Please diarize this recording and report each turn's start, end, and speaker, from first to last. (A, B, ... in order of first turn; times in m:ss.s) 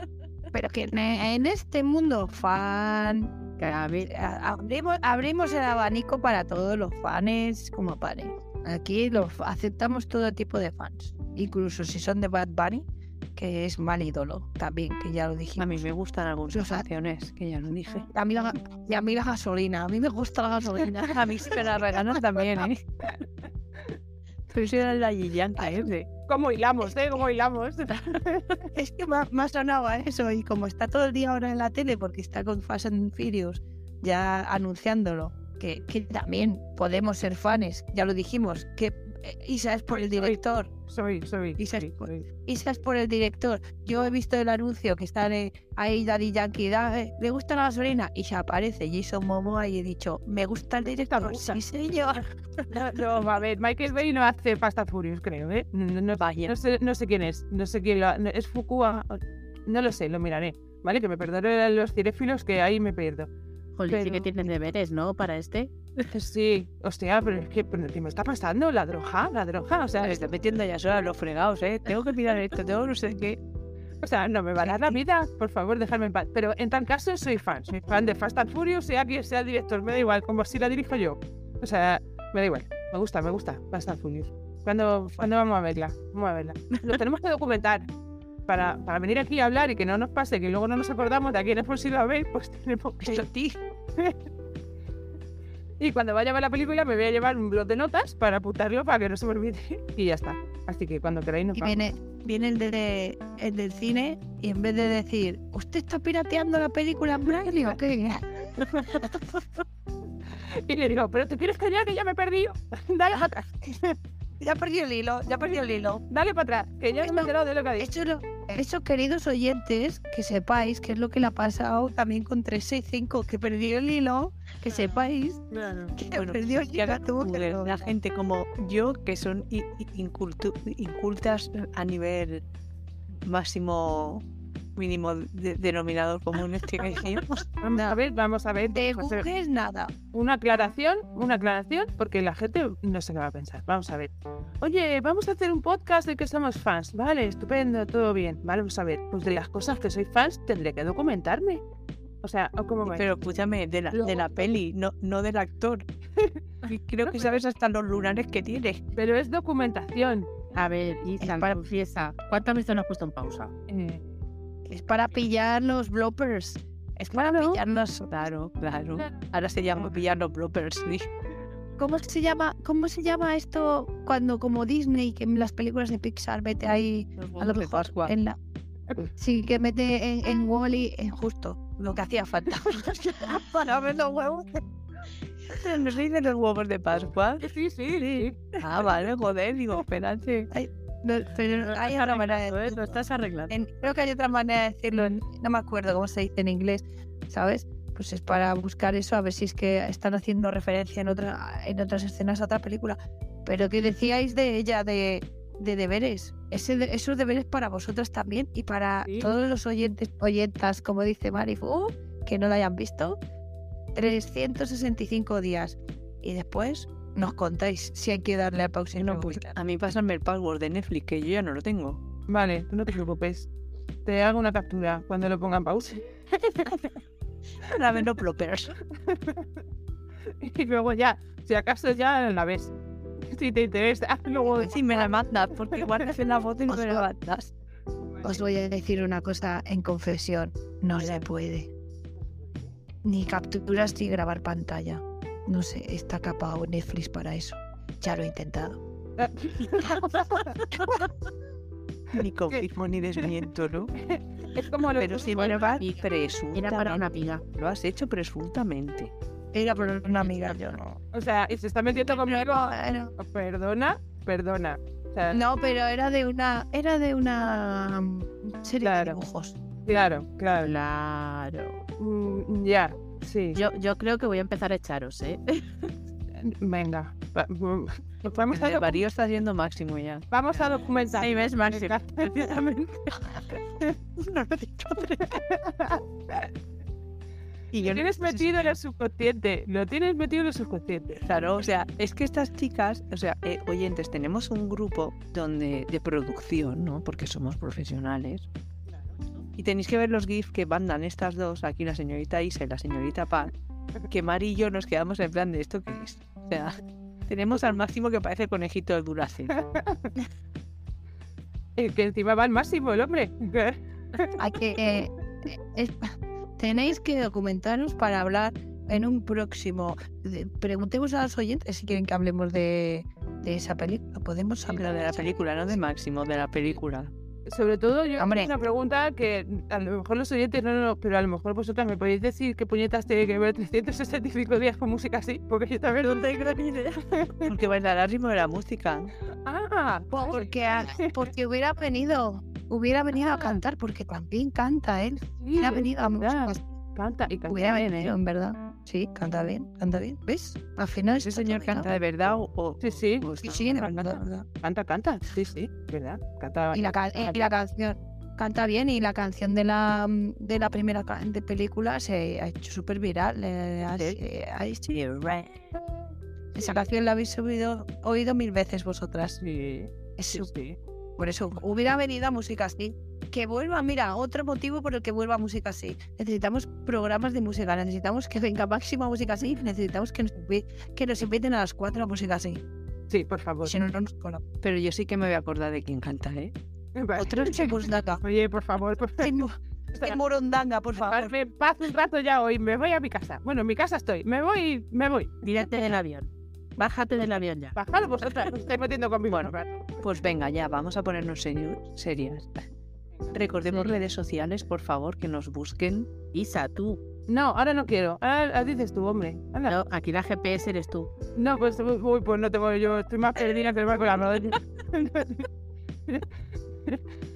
0:00.5-0:03.3 A
0:03.6-0:04.1 B
0:04.0-0:12.8 A
0:13.4-0:15.8 A
0:15.6-0:18.1 C
0:16.5-0:16.9 A
0:18.1-0:22.1 A
0:21.1-0:22.8 C
0:24.5-0:26.1 C
0:25.6-0:25.8 A
0:26.3-0:28.7 D
0:28.8-0:40.7 A
0:39.9-0:42.2 D
0:41.6-0:52.6 A
0:50.9-0:51.6 D
0:52.7-1:03.3 D
0:56.2-0:56.6 C
1:03.8-1:05.7 B
1:03.9-1:04.3 D
1:06.1-1:10.2 D
1:10.0-1:13.4 C
1:14.0-1:27.9 D
1:14.6-1:15.0 C
1:28.5-1:33.3 D
1:33.0-1:33.6 C
1:35.8-1:41.8 D
1:41.5-1:49.4 A
1:50.5-1:54.0 D
1:54.4-1:56.0 A
1:56.1-1:57.9 D
1:57.0-2:07.8 A
2:05.6-2:05.9 B
2:06.1-2:12.4 C
2:13.2-2:14.2 C
2:14.8-2:17.5 C
2:17.6-2:19.3 D
2:18.7-2:19.9 A
2:20.1-2:31.6 D
2:32.2-2:33.1 D
2:32.8-2:35.8 C
2:33.9-2:34.5 D
2:36.6-2:38.8 C
2:39.0-2:40.4 D
2:40.5-2:43.5 B
2:41.2-2:41.6 A
2:43.7-2:44.1 D
2:44.7-2:48.1 A
2:47.2-2:47.6 D
2:48.1-2:51.1 C
2:51.8-2:58.4 A
2:57.2-2:58.2 C
2:59.2-3:04.6 A
3:02.7-3:03.4 D
3:05.5-3:07.5 C
3:07.4-3:08.4 D
3:08.6-3:10.5 C
3:10.5-3:13.0 A
3:11.7-3:13.6 B
3:13.5-3:33.2 A
3:34.0-3:39.5 A
3:39.0-3:42.0 C
3:42.3-3:43.5 D
3:44.0-3:46.9 D
3:47.6-3:48.8 C
3:49.1-3:49.5 D
3:50.4-3:52.7 D
3:53.3-3:54.7 D
3:54.5-3:54.8 A
3:54.6-3:57.5 C
3:56.7-3:57.1 A
3:58.2-4:01.7 A
4:03.0-4:08.8 A
4:09.2-4:10.9 D
4:12.1-4:13.9 C
4:14.0-4:15.6 D
4:15.0-4:19.1 C
4:15.7-4:17.4 B
4:19.5-4:21.0 A
4:21.1-4:25.4 D
4:22.1-4:23.1 A
4:25.3-4:29.6 A
4:28.8-4:29.2 D
4:29.9-4:30.7 D
4:30.6-4:31.8 B
4:32.0-4:33.6 D
4:33.6-4:35.9 B
4:36.4-4:39.0 D
4:38.5-4:40.8 C
4:40.3-4:42.3 D
4:41.2-4:43.4 B
4:44.2-4:45.4 C
4:45.3-4:46.5 D
4:47.7-4:48.8 C
4:47.8-4:51.2 D
4:51.3-4:58.5 C
4:59.6-5:03.5 C
5:04.1-5:06.8 C
5:07.3-5:09.6 C
5:09.5-5:10.1 D
5:11.8-5:14.3 D
5:14.4-5:16.0 A
5:16.6-5:25.4 A
5:24.7-5:27.1 C
5:27.5-5:36.4 D
5:28.2-5:28.5 A
5:36.2-5:36.5 A
5:37.0-5:37.5 D
5:37.4-5:39.1 C
5:39.4-5:41.1 D
5:40.1-5:46.6 A
5:43.2-5:43.6 D
5:45.2-5:48.2 D
5:47.5-5:51.9 A
5:51.2-5:54.1 C
5:52.8-5:53.3 D
5:53.4-5:54.5 A
5:54.6-5:57.4 D
5:56.7-6:05.5 A
6:06.6-6:09.4 A
6:06.6-6:06.9 D
6:09.4-6:10.8 D
6:10.2-6:10.5 A
6:11.2-6:22.6 A
6:23.1-6:23.8 D
6:23.6-6:24.4 A
6:24.6-6:26.5 C
6:27.0-6:29.3 D
6:27.2-6:28.2 A
6:29.2-6:31.3 A
6:31.0-6:35.3 D
6:35.4-6:38.5 B
6:37.8-6:40.1 D
6:39.3-6:42.5 C
6:43.3-6:46.1 C
6:46.3-6:47.0 B
6:47.3-6:49.8 D
6:49.7-6:51.1 B
6:51.4-6:55.5 D